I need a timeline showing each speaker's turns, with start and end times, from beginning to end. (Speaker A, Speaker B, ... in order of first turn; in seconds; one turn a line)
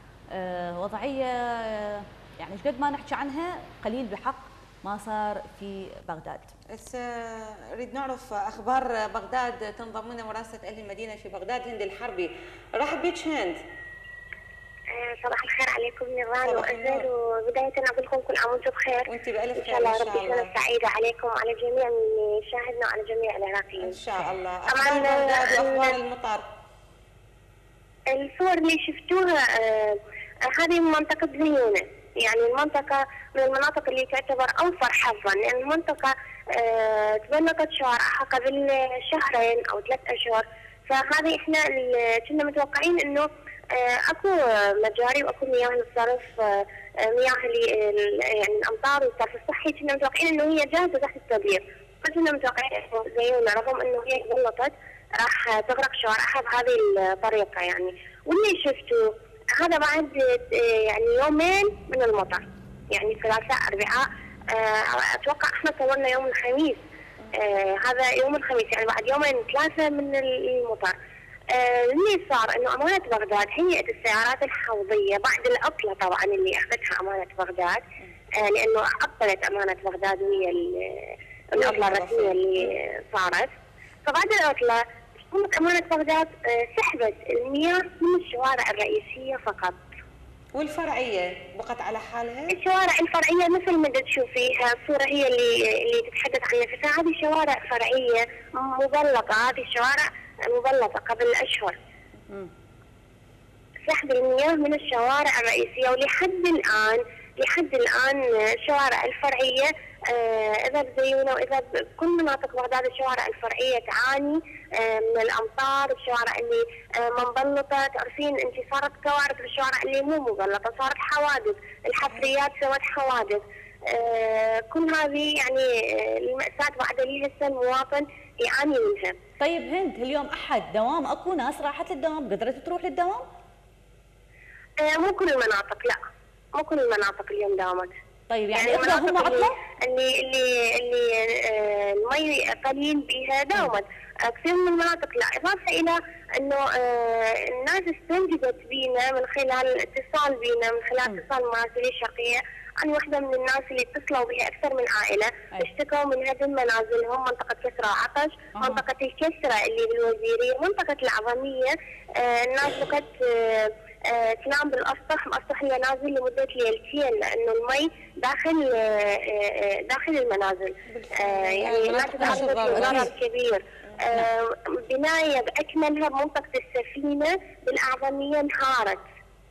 Speaker A: 0.3-6.5
Speaker B: 6.7-13.6
Speaker C: 14.9-24.0
Speaker B: 16.4-17.1
Speaker B: 19.1-20.5
Speaker B: 23.8-26.4
Speaker C: 24.7-26.0
Speaker C: 28.1-66.8
Speaker C: 67.3-71.0
Speaker C: 71.5-77.8
Speaker C: 78.4-83.5
Speaker B: 81.6-82.6
Speaker C: 84.0-89.8
Speaker B: 90.5-92.5
Speaker C: 92.5-101.8
Speaker C: 103.9-129.2
Speaker A: 129.4-133.2
Speaker C: 134.8-136.0
Speaker C: 136.6-137.9
Speaker A: 138.3-139.5
Speaker C: 138.5-179.0
Speaker B: 170.9-173.1
Speaker A: 172.2-173.1